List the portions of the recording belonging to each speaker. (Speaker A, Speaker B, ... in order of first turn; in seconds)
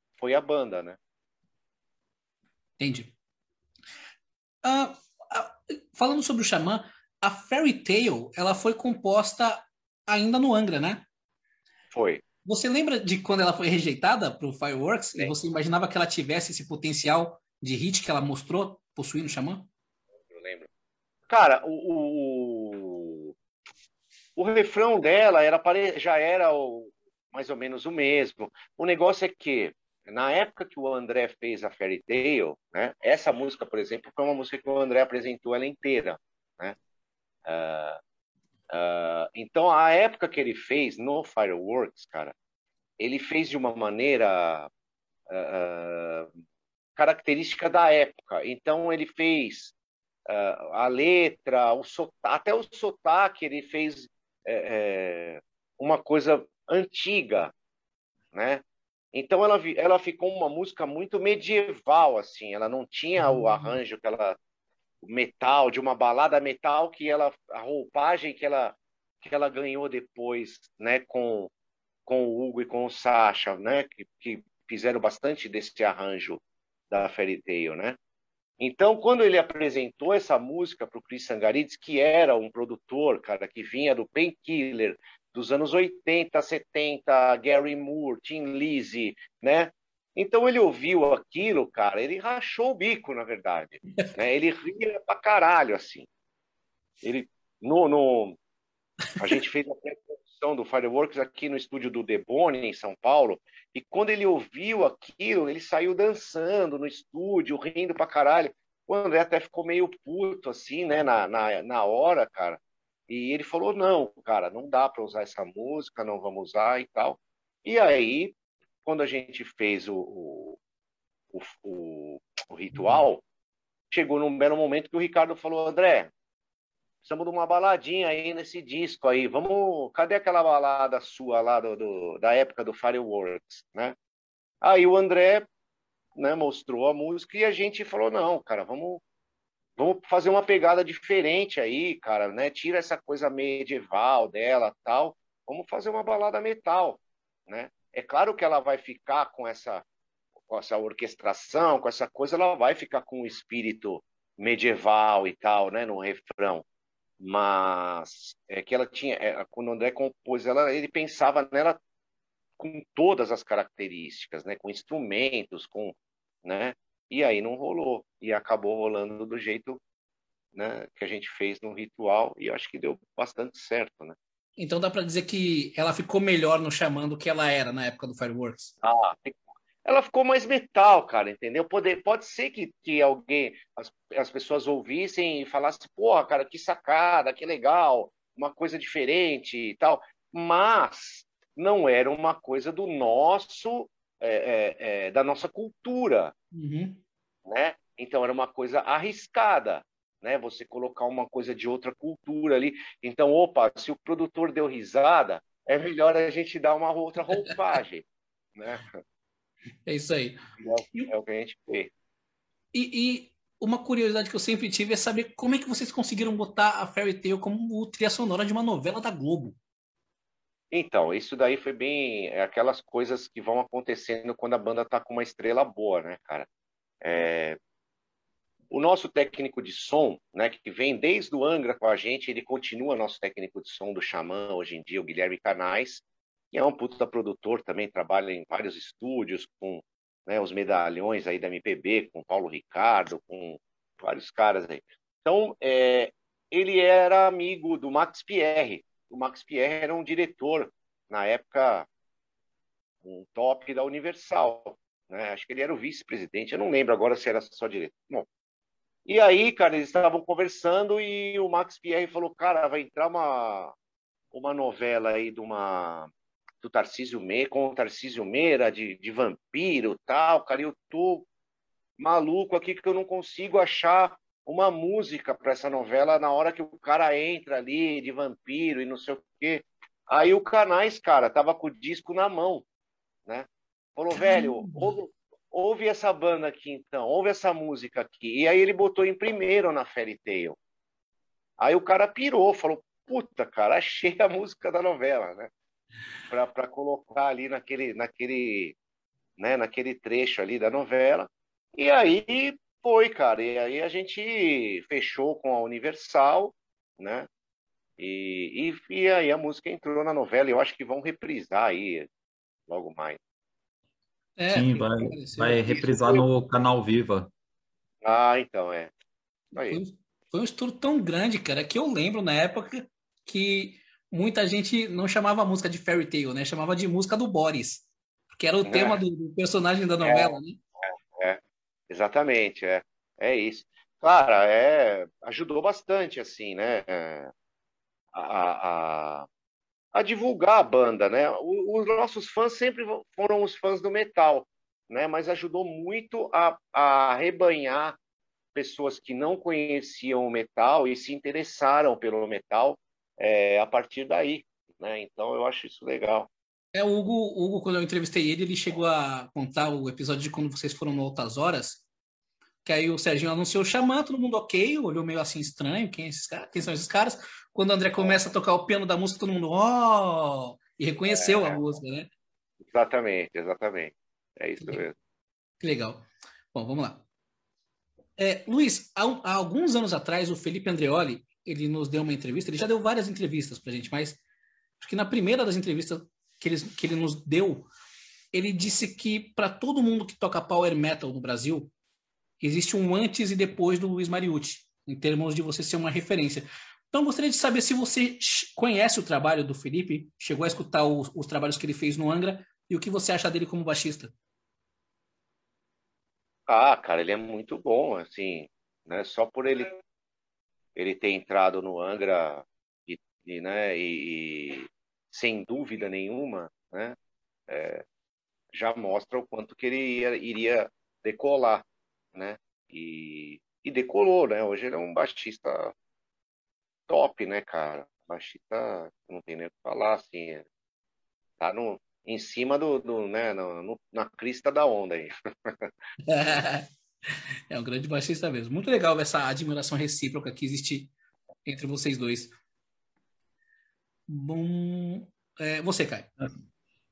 Speaker A: 0.2-1.0, 11.9-12.2, 20.3-20.7, 21.3-23.3, 24.4-36.8, 37.5-38.0, 38.7-42.3, 43.0-44.7, 45.3-46.3, 47.0-49.7, 50.3-57.5, 58.3-64.4, 65.0-71.5, 72.1-78.0, 78.6-96.1, 97.0-98.4, 99.2-118.3, 118.8-120.6, 121.3-123.2, 123.9-126.1, 127.0-133.9, 134.6-135.5, 136.2-139.0, 139.8-149.8, 150.5-156.6, 157.2-161.8, 162.6-169.8, 170.5-174.2, 178.8-196.3, 197.5-209.0, 210.6-211.9, 220.7-226.5, 227.0-227.6, 228.7-251.9, 253.0-258.3, 259.1-263.7, 264.3-266.1, 266.6-271.3, 272.0-282.6, 284.0-290.6, 291.6-295.5, 296.3-298.8, 299.4-307.3, 308.0-312.1, 312.7-313.2, 318.0-318.9, 319.5-319.8, 328.7-329.0, 330.0-337.3, 338.1-339.3, 339.9-348.0, 348.5-356.3, 371.1-371.6, 372.7-374.9, 406.5-409.7, 410.8-417.0, 417.5-417.8, 418.5-425.7, 426.9-430.5, 431.4-435.7
Speaker B: 2.8-3.1, 4.6-11.1, 12.4-19.7, 63.2-63.8, 174.6-178.7, 196.5-197.0, 209.9-210.4, 212.7-219.6, 284.1-284.9, 314.4-316.3, 319.6-330.6, 356.7-361.9, 362.6-372.1, 375.6-377.0, 378.2-384.2, 384.8-387.7, 388.3-391.7, 392.4-404.1, 436.1-440.9, 441.4-442.4, 444.1-446.1
Speaker C: 314.5-317.3